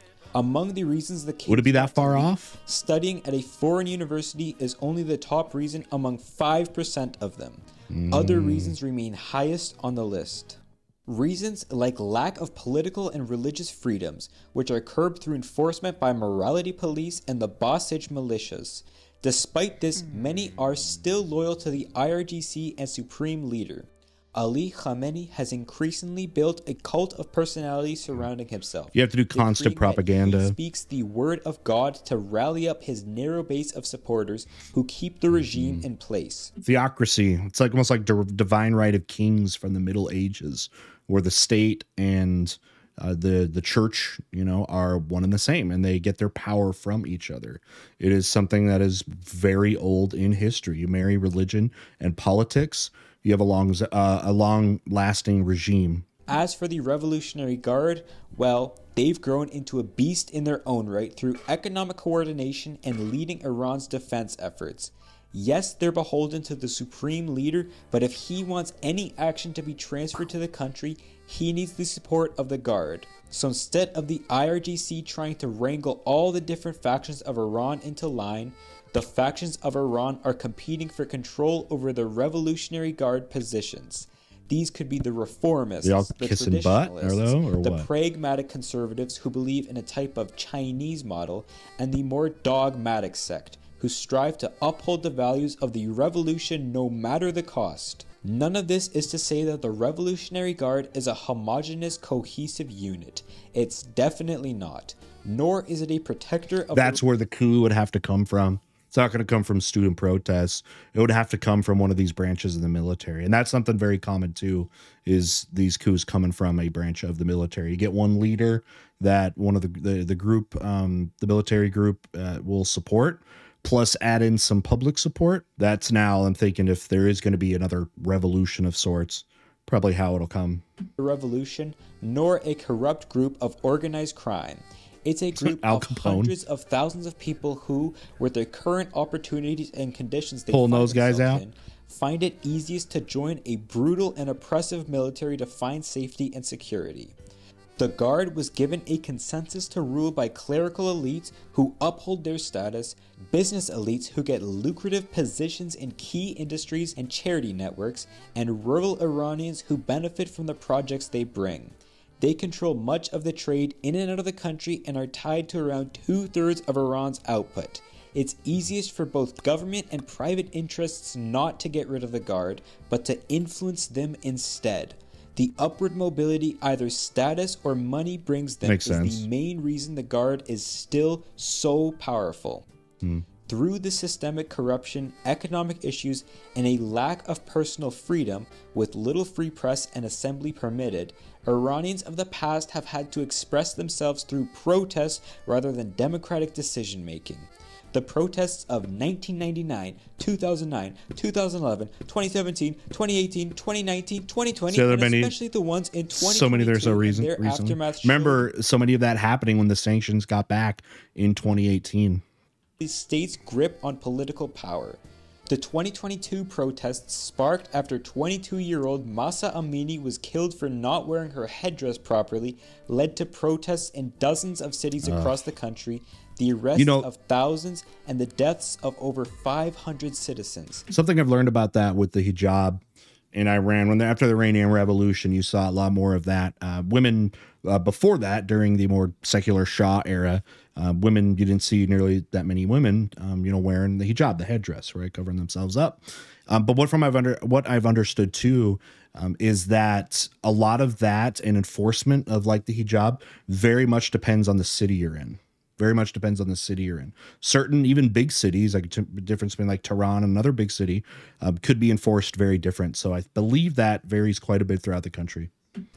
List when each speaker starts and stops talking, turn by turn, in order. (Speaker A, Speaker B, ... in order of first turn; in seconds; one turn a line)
Speaker A: 0.3-36.5
Speaker B: 1.5-2.6
Speaker B: 7.9-8.8
Speaker B: 28.9-30.6
Speaker B: 35.5-35.8
Speaker B: 36.6-56.0
Speaker A: 56.3-107.0
Speaker B: 85.8-87.9
Speaker B: 106.7-130.6
Speaker A: 131.0-147.2
Speaker B: 135.3-136.3
Speaker B: 140.5-141.4
Speaker A: 147.8-182.7
Speaker B: 178.6-179.2
Speaker A: 183.5-208.5
Speaker B: 204.7-205.3
Speaker B: 206.1-212.2
Speaker A: 212.8-230.8
Speaker B: 225.0-225.4
Speaker B: 226.8-227.1
Speaker B: 230.9-232.8
Speaker B: 233.3-265.5